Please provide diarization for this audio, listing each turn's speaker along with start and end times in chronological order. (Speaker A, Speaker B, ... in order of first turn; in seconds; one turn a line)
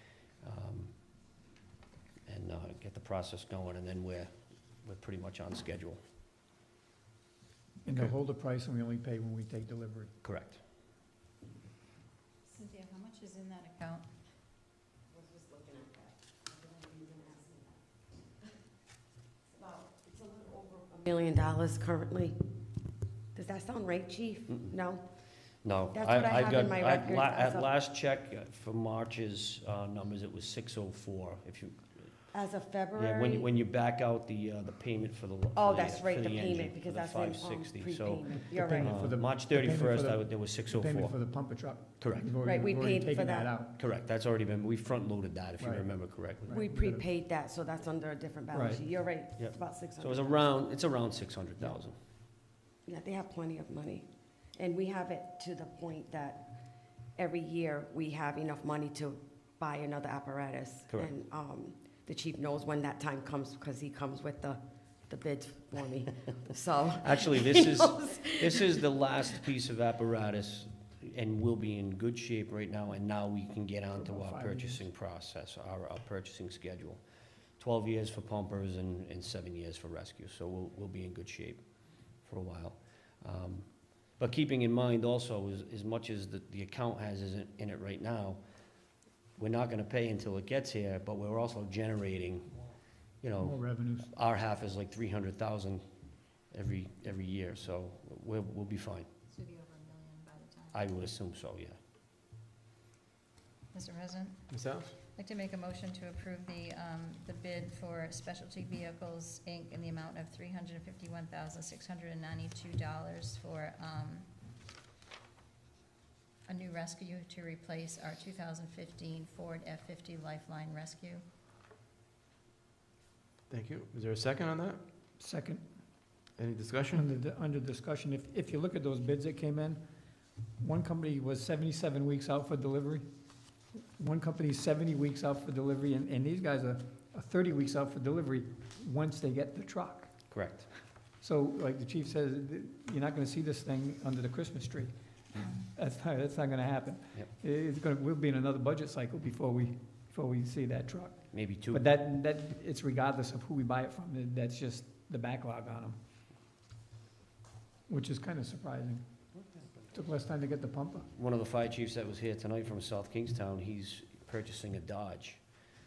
Speaker A: 0.4-0.9
Speaker A: 2.3-4.3
Speaker A: 4.8-6.0
Speaker B: 7.8-10.1
Speaker A: 10.2-10.6
Speaker C: 12.4-14.1
Speaker D: 15.1-17.8
Speaker D: 19.5-22.4
Speaker D: 23.3-25.1
Speaker A: 25.6-31.9
Speaker D: 25.9-27.7
Speaker D: 32.3-33.5
Speaker A: 33.0-41.1
Speaker D: 35.5-39.0
Speaker B: 38.5-43.8
Speaker A: 42.0-42.3
Speaker D: 42.4-43.5
Speaker A: 43.8-46.6
Speaker B: 45.6-45.9
Speaker B: 46.4-47.1
Speaker D: 46.5-50.5
Speaker B: 48.5-48.8
Speaker A: 49.4-52.0
Speaker D: 52.9-56.6
Speaker D: 57.2-68.8
Speaker A: 67.0-77.0
Speaker B: 74.0-74.8
Speaker A: 77.6-81.6
Speaker A: 82.2-88.4
Speaker A: 89.4-92.6
Speaker A: 93.2-95.9
Speaker B: 93.4-94.1
Speaker A: 96.5-99.1
Speaker C: 99.3-100.8
Speaker A: 100.7-101.8
Speaker C: 103.7-104.4
Speaker E: 104.5-105.0
Speaker C: 105.1-114.3
Speaker C: 116.5-121.2
Speaker E: 123.5-124.8
Speaker B: 125.2-125.7
Speaker E: 126.4-127.1
Speaker B: 126.9-129.8
Speaker B: 130.6-133.0
Speaker B: 134.0-140.1
Speaker A: 140.3-140.7
Speaker B: 141.2-156.0
Speaker A: 151.3-151.8
Speaker B: 157.9-159.0
Speaker B: 159.9-161.1
Speaker A: 161.2-165.4